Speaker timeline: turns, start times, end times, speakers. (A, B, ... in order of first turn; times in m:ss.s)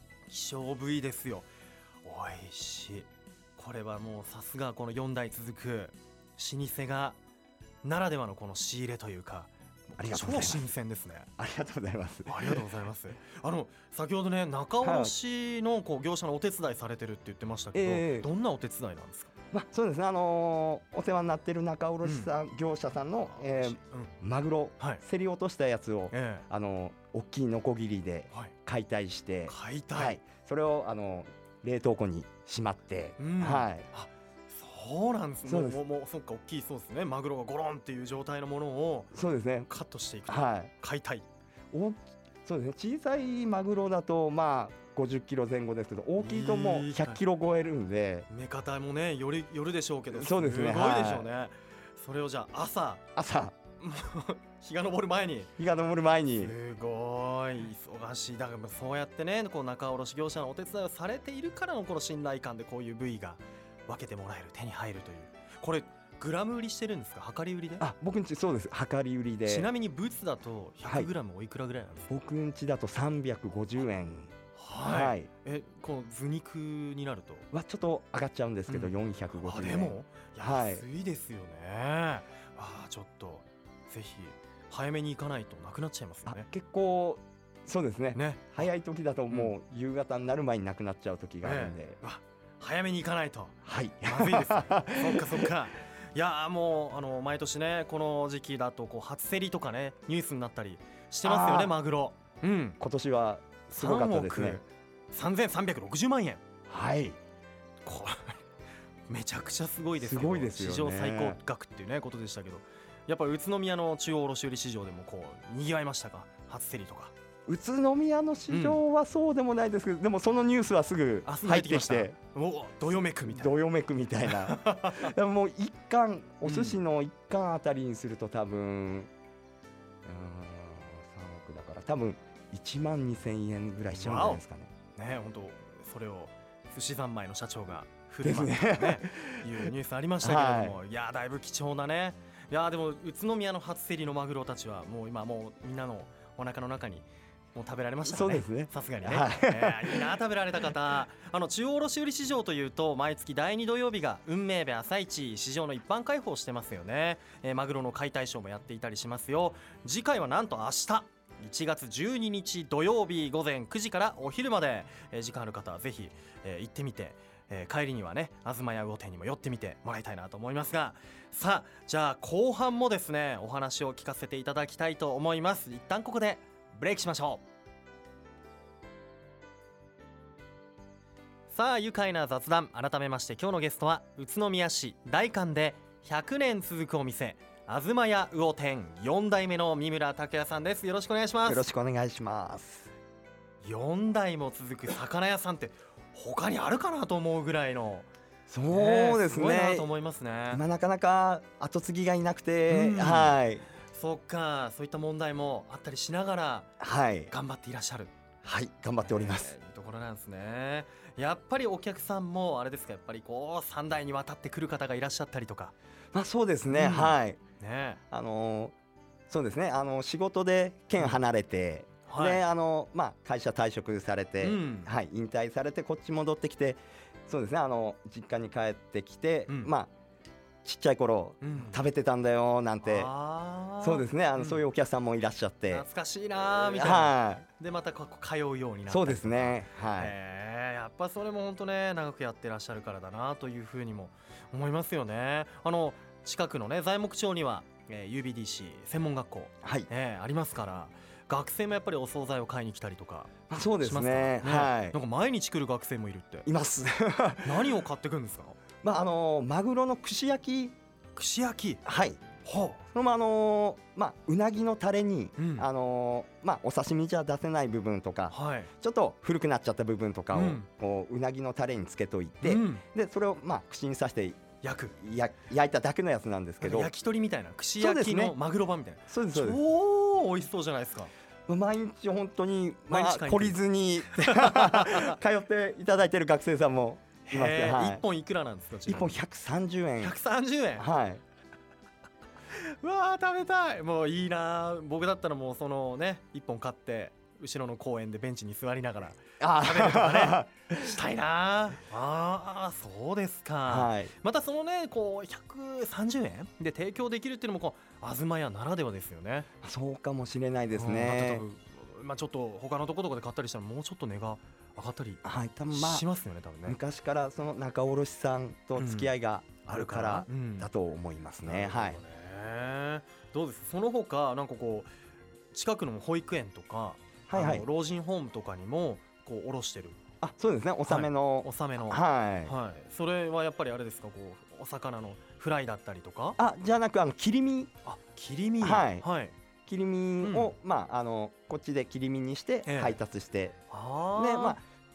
0:00.3-0:01.5 A
0:02.0-0:07.2 A
0:07.8-0:11.3 A
0:10.0-0:10.6 B
0:11.4-0:12.6 B
0:12.2-0:19.3 A
0:14.8-0:15.1 B
0:17.7-0:18.3 B
0:19.5-0:33.8 B
0:22.0-0:22.3 A
0:23.3-0:24.1 A
0:26.1-0:26.4 A
0:29.5-0:30.2 A
0:33.2-0:39.1 A
0:35.4-0:35.8 B
0:39.1-0:39.7 B
0:39.7-0:41.2 A
0:40.3-0:40.7 B
0:41.7-0:48.3 B
0:46.2-0:47.2 A
0:48.3-0:53.0 A
0:50.1-0:51.3 B
0:53.2-0:53.5 B
0:53.8-0:55.5 A
0:55.6-0:56.5 B
0:56.4-1:07.8 A
1:07.8-1:09.7 B
1:09.5-1:12.1 A
1:12.1-1:15.3 B
1:14.6-1:17.4 A
1:17.5-1:20.8 B
1:18.7-1:26.5 A
1:26.3-1:32.0 B
1:28.1-1:28.6 A
1:29.3-1:29.5 A
1:31.4-1:33.5 A
1:33.6-1:35.5 B
1:34.0-1:42.8 A
1:41.2-1:41.7 B
1:42.8-1:44.6 B
1:43.7-1:46.4 A
1:46.7-1:47.2 B
1:47.8-1:48.4 A
1:49.1-1:57.1 A
1:50.0-1:51.4 B
1:57.5-2:02.1 B
1:58.5-1:58.8 A
2:01.2-2:03.6 A
2:03.2-2:09.1 B
2:04.2-2:05.1 A
2:06.4-2:06.8 A
2:10.0-2:14.7 B
2:14.0-2:14.4 A
2:15.0-2:57.4 A
2:18.2-2:19.7 B
2:20.2-2:20.8 B
2:28.0-2:30.2 B
3:01.5-3:11.6 A
3:11.4-3:12.9 B
3:13.6-3:18.1 A
3:18.5-3:19.9 B
3:18.7-3:20.6 A
3:20.5-3:23.6 B
3:22.7-3:23.4 A
3:23.9-3:26.7 A
3:26.8-3:27.3 B
3:27.3-3:28.1 A
3:28.4-3:29.5 B
3:29.0-3:35.7 A
3:36.1-3:37.4 B
3:36.7-3:38.0 A
3:38.1-3:38.7 B
3:39.3-3:49.9 B
3:42.1-3:42.4 A
3:44.4-3:44.9 A
3:49.5-3:49.7 A
3:50.6-3:53.1 B
3:51.4-3:51.8 A
3:52.8-3:54.6 A
3:53.8-3:55.8 B
3:55.7-4:16.5 A
3:56.4-3:57.4 B
3:58.9-4:00.1 B
4:09.6-4:09.9 B
4:13.5-4:15.0 B
4:16.4-4:17.8 B
4:17.4-4:18.6 A
4:18.8-4:20.7 B
4:21.1-4:21.8 A
4:21.8-4:22.2 B
4:22.4-4:22.8 A
4:22.9-4:34.4 B
4:25.4-4:25.7 A
4:28.3-4:28.7 A
4:30.3-4:30.7 A
4:32.4-4:32.8 A
4:34.6-4:34.9 A
4:35.0-4:36.9 B
4:36.6-4:41.1 A
4:37.8-4:38.3 B
4:39.1-4:39.6 B
4:41.5-4:48.0 B
4:42.9-4:45.2 A
4:47.2-4:49.2 A
4:48.9-4:50.2 B
4:50.0-4:50.9 A
4:50.8-4:51.2 B
4:52.5-5:09.5 A
4:59.4-5:00.6 B
5:03.7-5:04.1 B
5:09.6-5:11.4 B
5:10.7-5:16.8 A
5:15.2-5:16.0 B
5:16.6-5:22.0 B
5:18.8-5:19.1 A
5:19.6-5:20.7 A
5:21.4-5:24.9 A
5:25.5-5:30.0 A
5:27.3-5:27.7 B
5:30.2-5:32.5 B
5:30.8-5:36.4 A
5:36.4-5:37.7 B
5:37.8-5:39.3 A
5:38.6-5:39.0 B
5:39.7-5:43.6 B
5:40.2-5:40.5 A
5:42.6-5:43.0 A
5:43.7-5:44.6 A
5:44.1-5:44.6 B